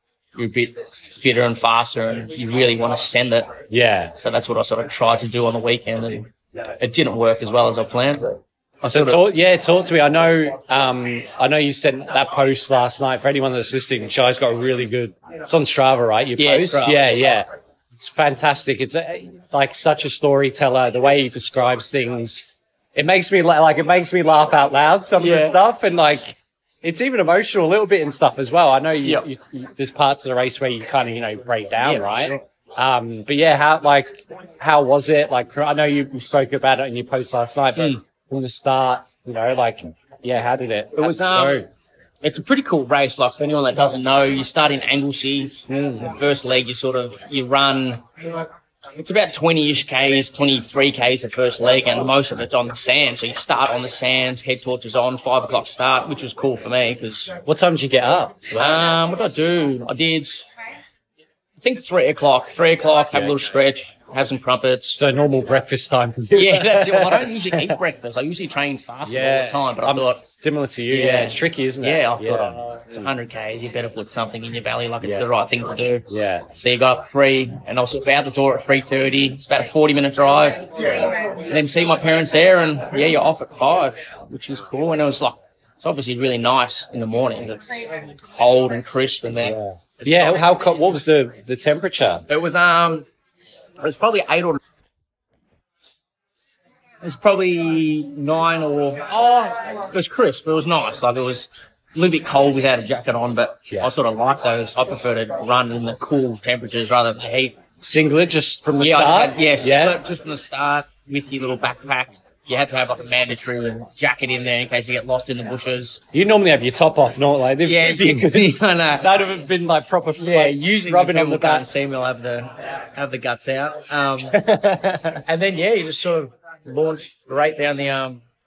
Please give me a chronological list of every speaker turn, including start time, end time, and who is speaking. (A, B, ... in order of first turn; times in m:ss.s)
0:00.4-0:03.5 A
0:03.7-0:04.1 B
0:04.2-0:09.2 A
0:08.8-0:41.7 B
0:16.4-0:17.2 A
0:25.2-0:25.5 A
0:29.0-0:29.3 A
0:31.8-0:32.4 A
0:41.0-0:41.6 A
0:42.2-0:48.0 A
0:45.7-0:46.1 B
0:49.0-0:57.3 A
0:57.4-0:58.8 B
0:58.5-1:00.5 A
1:01.6-1:05.0 A
1:05.0-1:07.8 B
1:06.3-1:10.2 A
1:09.0-1:13.1 B
1:10.9-1:16.0 A
1:15.0-1:15.2 B
1:16.1-1:16.5 B
1:16.6-1:20.7 A
1:21.4-1:27.7 A
1:28.2-1:30.4 A
1:29.4-1:32.2 B
1:32.3-1:33.0 A
1:33.8-1:34.6 A
1:37.0-1:47.6 A
1:47.8-1:50.0 B
1:48.8-1:56.0 A
1:56.1-2:01.7 B
1:57.6-1:59.1 A
2:00.2-2:04.4 A
2:04.2-2:05.2 B
2:05.2-2:08.2 A